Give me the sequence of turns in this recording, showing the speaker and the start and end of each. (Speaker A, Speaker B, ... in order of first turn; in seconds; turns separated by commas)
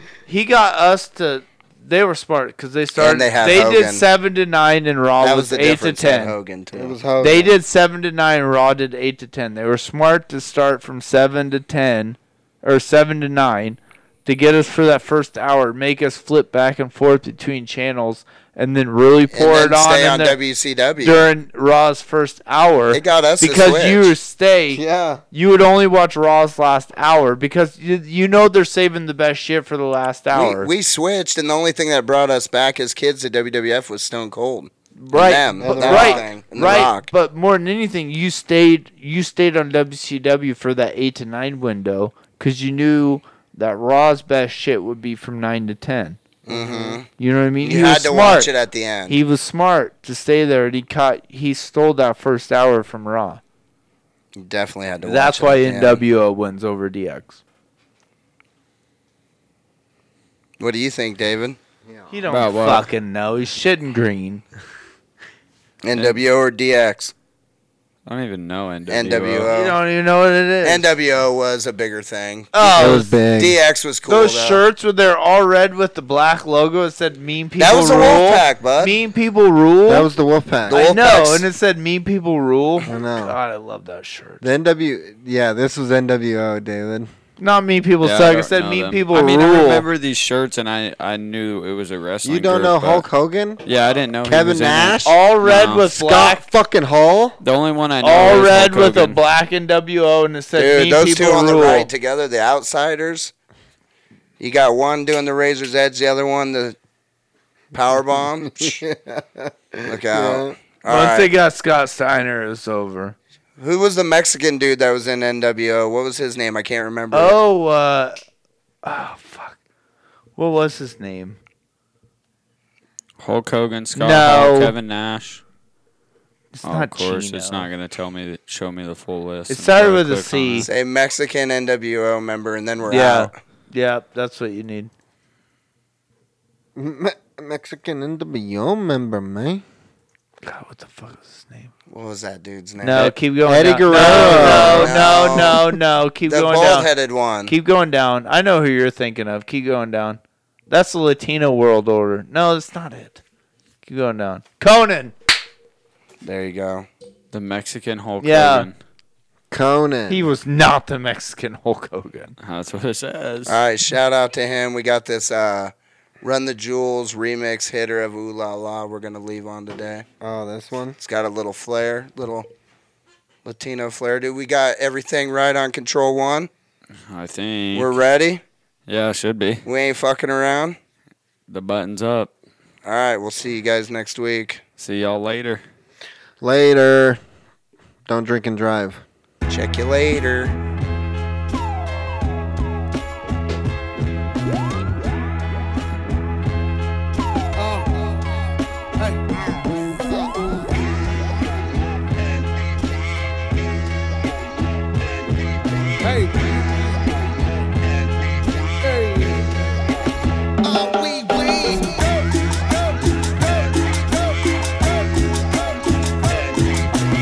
Speaker A: 0.3-6.4, Speaker B: 3.0-4.0, Speaker B: 5.2-7.0, Speaker C: 6.7-7.6, Speaker A: 7.2-20.4, Speaker B: 19.3-21.3, Speaker A: 21.0-30.7, Speaker B: 22.9-24.1, Speaker C: 24.7-25.2, Speaker B: 30.3-37.1, Speaker A: 35.0-46.2, Speaker C: 35.6-36.3, Speaker B: 46.5-47.1, Speaker C: 46.5-47.0, Speaker A: 47.1-48.5, Speaker B: 47.6-49.2, Speaker A: 49.1-53.4, Speaker B: 54.4-56.0, Speaker A: 55.0-57.4, Speaker B: 60.6-61.6, Speaker C: 61.9-62.2, Speaker A: 62.1-64.4, Speaker D: 62.3-62.9, Speaker B: 65.8-67.1, Speaker D: 68.1-69.5, Speaker B: 68.9-69.8, Speaker A: 69.5-70.9, Speaker B: 70.6-74.6, Speaker A: 72.5-73.1, Speaker C: 72.8-73.6, Speaker A: 74.1-80.1, Speaker B: 77.6-79.0, Speaker C: 79.9-80.8, Speaker B: 80.7-81.5, Speaker A: 80.7-84.5, Speaker C: 82.9-83.4, Speaker C: 84.4-87.1, Speaker A: 87.4-89.9, Speaker D: 88.0-93.1, Speaker C: 92.2-93.6, Speaker D: 93.7-95.9, Speaker C: 94.2-95.2, Speaker A: 95.0-96.5, Speaker C: 95.9-97.4, Speaker D: 97.4-99.2, Speaker A: 98.0-101.9, Speaker B: 100.6-103.3, Speaker B: 104.4-106.8, Speaker B: 107.7-108.8, Speaker C: 108.6-110.5, Speaker B: 109.9-111.3, Speaker A: 110.9-113.2, Speaker B: 113.6-117.4, Speaker A: 117.1-118.2, Speaker A: 118.8-119.6, Speaker A: 120.4-121.4, Speaker D: 123.2-125.4, Speaker A: 123.9-124.7, Speaker A: 126.5-127.7, Speaker D: 126.6-130.7, Speaker A: 129.5-130.7, Speaker B: 130.6-133.3, Speaker A: 132.9-134.9, Speaker C: 136.8-139.6, Speaker A: 140.4-141.7, Speaker B: 141.9-143.1, Speaker A: 142.8-146.9, Speaker C: 143.4-145.6, Speaker B: 143.9-145.6, Speaker B: 146.3-147.5, Speaker A: 147.5-153.2, Speaker A: 153.9-155.2, Speaker B: 156.2-156.9, Speaker D: 157.3-158.7, Speaker A: 158.2-158.7, Speaker C: 159.5-160.3, Speaker A: 160.1-162.3, Speaker D: 162.4-163.6, Speaker B: 163.5-170.1, Speaker C: 170.2-171.0, Speaker B: 171.0-172.5, Speaker B: 173.4-176.5, Speaker D: 177.1-177.9, Speaker B: 177.7-178.4, Speaker D: 178.9-179.6, Speaker B: 179.7-180.8, Speaker D: 181.5-182.3, Speaker B: 182.8-184.6, Speaker D: 184.8-185.6, Speaker C: 186.4-187.2, Speaker C: 188.1-189.0, Speaker B: 189.5-190.6, Speaker E: 197.6-197.9, Speaker E: 206.0-206.3, Speaker E: 208.8-209.4, Speaker E: 210.7-212.0